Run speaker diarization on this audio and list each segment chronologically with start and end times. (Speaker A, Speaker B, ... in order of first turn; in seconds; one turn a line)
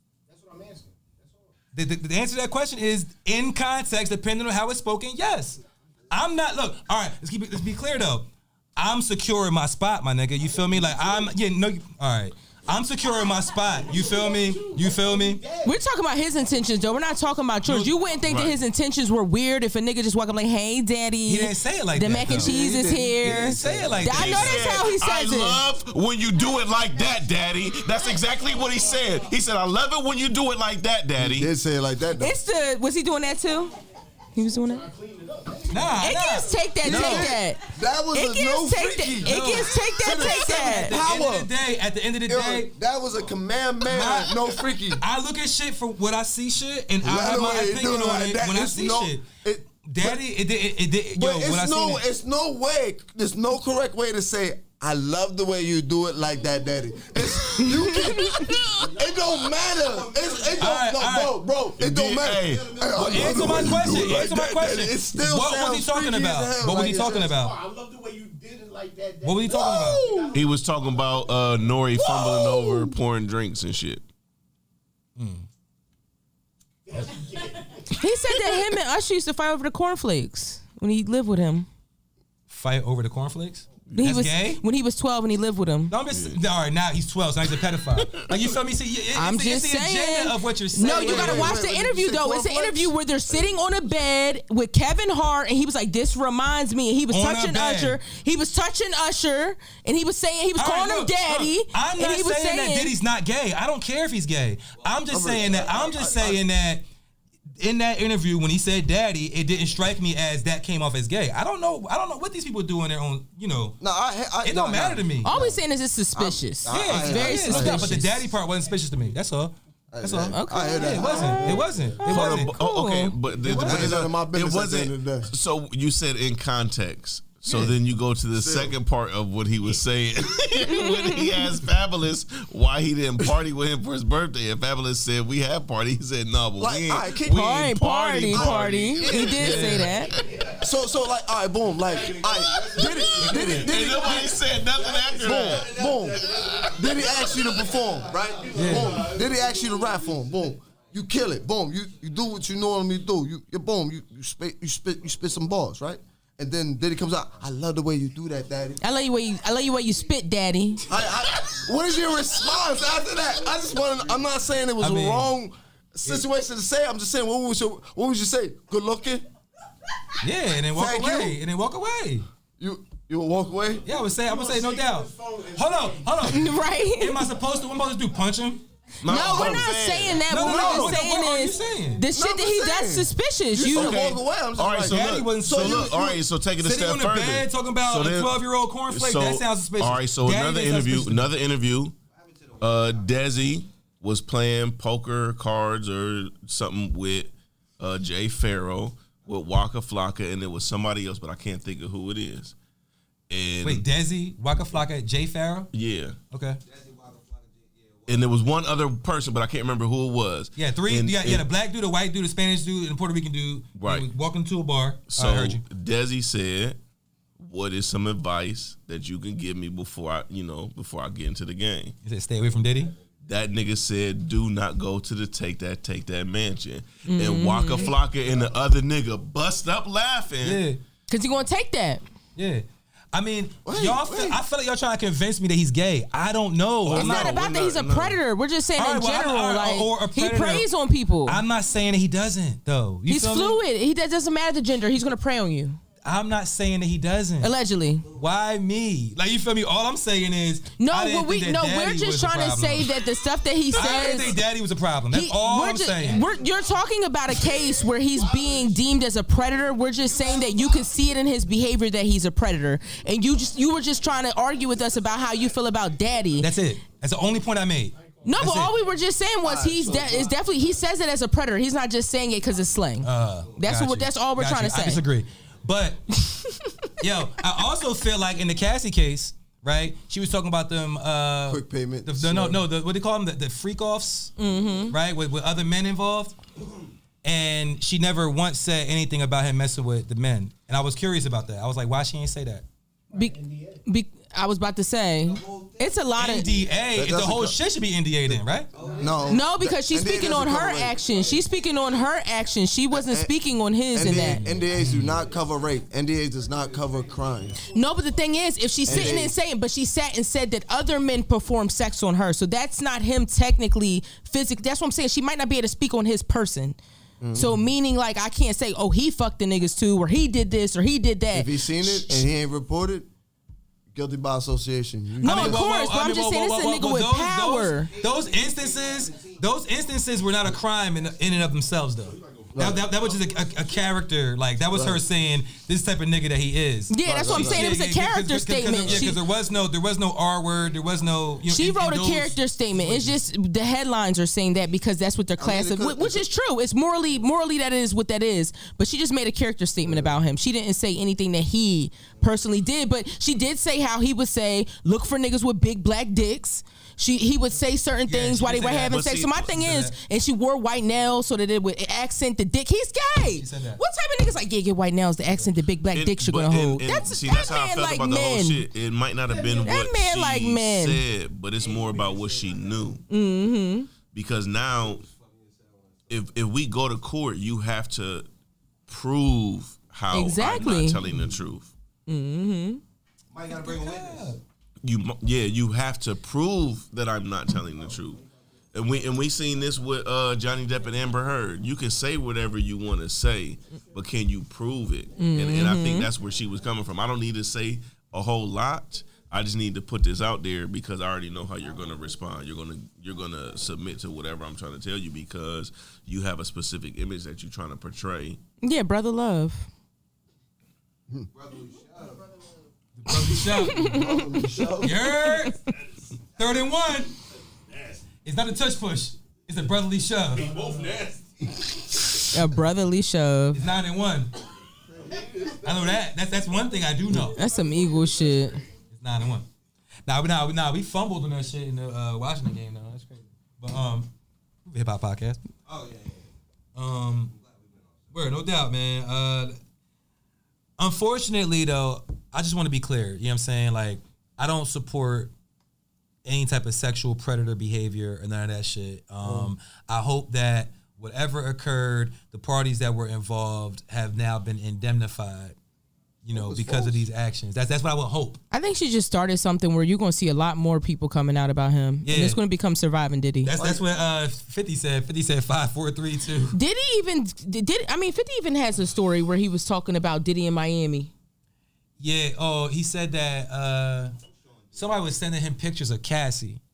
Speaker A: 0.3-1.5
Speaker B: 1.7-15.4
Speaker A: 10.5-11.3
Speaker A: 13.6-15.8
Speaker C: 15.6-25.6
Speaker B: 17.6-17.9
Speaker D: 18.2-18.6
Speaker B: 21.3-24.7
Speaker E: 22.3-24.1
Speaker D: 24.0-31.5
Speaker A: 28.4-29.3
Speaker E: 31.1-32.4
Speaker C: 32.2-33.8
Speaker C: 34.3-34.9
Speaker A: 34.4-36.2
Speaker B: 35.7-37.3
Speaker C: 36.0-41.0
Speaker E: 36.8-41.5
Speaker B: 39.2-42.7
Speaker E: 42.3-45.0
Speaker B: 43.9-44.4
Speaker B: 45.0-49.3
Speaker E: 47.0-50.2
Speaker B: 49.8-52.0
Speaker E: 51.1-67.3
Speaker C: 57.6-58.5
Speaker D: 58.4-58.9
Speaker A: 58.8-60.7
Speaker F: 60.1-60.7
Speaker B: 60.6-61.4
Speaker D: 61.8-63.8
Speaker F: 62.4-63.5
Speaker B: 62.9-67.5
Speaker A: 66.8-71.6
Speaker B: 69.2-70.0
Speaker E: 69.5-70.3
Speaker D: 70.3-74.0
Speaker E: 71.9-73.0
Speaker B: 75.2-75.5
Speaker A: 76.8-78.1
Speaker C: 77.9-81.7
Speaker B: 82.5-84.6
Speaker D: 83.9-84.2
Speaker C: 83.9-85.9
Speaker B: 85.9-91.6
Speaker D: 86.1-86.4
Speaker D: 88.0-88.4
Speaker C: 89.1-102.9
Speaker E: 90.8-93.5
Speaker B: 97.1-98.0
Speaker B: 100.6-106.8
Speaker E: 105.1-106.4
Speaker B: 107.6-113.8
Speaker E: 113.8-115.6
Speaker B: 114.4-115.3
Speaker C: 115.2-118.3
Speaker E: 116.1-118.0
Speaker B: 116.7-122.5
Speaker E: 119.9-122.0
Speaker C: 120.3-123.2
Speaker D: 122.0-139.8
Speaker B: 123.4-124.0
Speaker E: 123.4-125.3
Speaker E: 127.5-127.8
Speaker E: 128.3-128.8
Speaker C: 130.7-131.4
Speaker E: 136.6-137.4
Speaker C: 137.2-140.1
Speaker E: 138.3-139.9
Speaker B: 139.4-139.9
Speaker A: 139.9-140.9
Speaker E: 140.6-144.4
Speaker A: 141.8-150.0
Speaker D: 142.4-145.9
Speaker B: 143.3-143.6
Speaker E: 145.2-158.8
Speaker D: 146.4-146.7
Speaker F: 147.1-149.4
Speaker B: 148.6-149.1
Speaker C: 158.8-160.9
Speaker E: 160.8-169.3
Speaker B: 164.8-165.3
Speaker B: 170.2-172.3
Speaker E: 170.7-171.4
Speaker E: 172.6-173.8
Speaker B: 173.8-178.6
Speaker A: 173.9-176.6
Speaker C: 176.2-177.3
Speaker D: 179.0-180.2
Speaker C: 179.0-184.1
Speaker B: 179.1-179.6
Speaker B: 180.3-182.1
Speaker E: 180.3-181.0
Speaker E: 182.1-186.2
Speaker D: 183.7-191.9
Speaker B: 184.8-185.9
Speaker B: 186.6-191.3
Speaker F: 192.1-193.5
Speaker D: 192.6-202.6
Speaker D: 203.3-203.8
Speaker B: 203.6-205.7
Speaker D: 205.7-206.2
Speaker B: 206.3-206.6
Speaker F: 206.6-208.8
Speaker D: 208.1-211.4
Speaker B: 210.6-215.6
Speaker D: 213.8-214.1
Speaker D: 215.1-216.8
Speaker D: 217.4-221.9
Speaker B: 222.0-222.9
Speaker D: 223.2-230.6
Speaker C: 227.1-228.0
Speaker B: 230.4-230.8
Speaker C: 231.1-232.0
Speaker B: 232.3-237.3
Speaker E: 233.6-234.4
Speaker D: 236.8-238.2
Speaker C: 236.9-241.4
Speaker B: 238.8-240.7
Speaker B: 241.3-243.6
Speaker C: 243.1-245.8
Speaker B: 246.0-247.5
Speaker C: 247.4-248.1
Speaker F: 248.0-248.3
Speaker B: 248.1-252.9
Speaker C: 250.8-254.4
Speaker B: 253.7-256.3
Speaker C: 255.1-266.6
Speaker F: 256.1-256.7
Speaker A: 256.5-256.8
Speaker F: 257.8-258.7
Speaker A: 258.2-258.6
Speaker A: 259.6-260.7
Speaker F: 259.9-260.9
Speaker B: 266.4-268.7
Speaker A: 267.9-270.6
Speaker C: 268.2-275.0
Speaker F: 269.9-270.2
Speaker B: 273.0-276.0
Speaker F: 273.2-273.6
Speaker C: 276.1-276.9
Speaker B: 277.0-284.4
Speaker E: 281.5-282.6
Speaker C: 284.4-284.9
Speaker B: 284.9-286.4
Speaker B: 287.2-292.6
Speaker A: 293.1-293.8
Speaker C: 293.1-296.5
Speaker F: 295.2-296.7
Speaker B: 296.1-298.7
Speaker E: 296.9-297.6
Speaker F: 298.7-299.5
Speaker A: 298.7-299.3
Speaker E: 299.0-301.0
Speaker C: 299.3-304.4
Speaker F: 301.0-302.1
Speaker E: 302.9-303.3
Speaker E: 303.9-307.6
Speaker B: 304.1-305.2
Speaker F: 304.4-305.8
Speaker F: 306.3-308.1
Speaker C: 307.7-316.8
Speaker E: 308.8-309.4
Speaker F: 308.9-309.2
Speaker E: 317.2-317.6
Speaker C: 317.3-322.2
Speaker E: 321.3-323.1
Speaker E: 323.9-325.7
Speaker C: 325.2-327.9
Speaker B: 325.2-343.2
Speaker F: 327.7-329.6
Speaker F: 330.9-331.2
Speaker G: 332.0-333.5
Speaker E: 332.5-332.9
Speaker E: 334.7-335.1
Speaker C: 336.9-339.2
Speaker E: 337.0-337.8
Speaker F: 340.6-341.1
Speaker C: 341.5-368.7
Speaker E: 345.4-346.3
Speaker E: 349.9-350.2
Speaker B: 358.1-360.0
Speaker D: 358.8-359.5
Speaker B: 363.3-363.8
Speaker D: 365.9-373.0
Speaker F: 369.2-369.7
Speaker C: 369.6-371.0
Speaker F: 371.6-373.0
Speaker C: 373.1-373.9
Speaker D: 374.1-375.0
Speaker F: 374.6-376.5
Speaker D: 376.1-378.3
Speaker D: 378.9-381.7
Speaker C: 380.1-381.0
Speaker C: 382.1-382.8
Speaker F: 383.3-384.4
Speaker B: 383.6-384.4
Speaker D: 384.8-408.4
Speaker F: 387.8-388.2
Speaker C: 395.2-396.1
Speaker C: 408.6-409.7
Speaker F: 411.3-412.4
Speaker B: 412.9-413.9
Speaker C: 413.2-415.5
Speaker E: 413.6-415.0
Speaker B: 414.8-415.6
Speaker G: 415.7-416.0
Speaker B: 416.4-417.1
Speaker G: 417.5-418.1
Speaker B: 418.2-420.5
Speaker A: 420.3-421.1
Speaker G: 420.3-421.8
Speaker C: 422.2-423.6
Speaker B: 423.5-424.3
Speaker F: 424.9-425.5
Speaker G: 425.0-426.0
Speaker B: 425.6-427.4
Speaker C: 427.1-428.6
Speaker G: 427.4-428.4
Speaker A: 427.7-428.0
Speaker B: 428.9-429.5
Speaker B: 430.1-434.1
Speaker B: 434.7-435.4
Speaker F: 435.6-436.3
Speaker B: 436.8-437.3
Speaker F: 437.1-438.4
Speaker B: 438.1-439.6
Speaker B: 440.8-445.3
Speaker B: 446.2-455.6
Speaker E: 449.2-449.5
Speaker B: 456.2-458.4
Speaker E: 456.3-457.1
Speaker C: 458.5-463.5
Speaker B: 462.0-462.4
Speaker B: 463.4-466.6
Speaker E: 463.5-463.8
Speaker C: 466.5-471.1
Speaker B: 472.0-474.1
Speaker F: 474.3-475.2
Speaker B: 474.8-476.6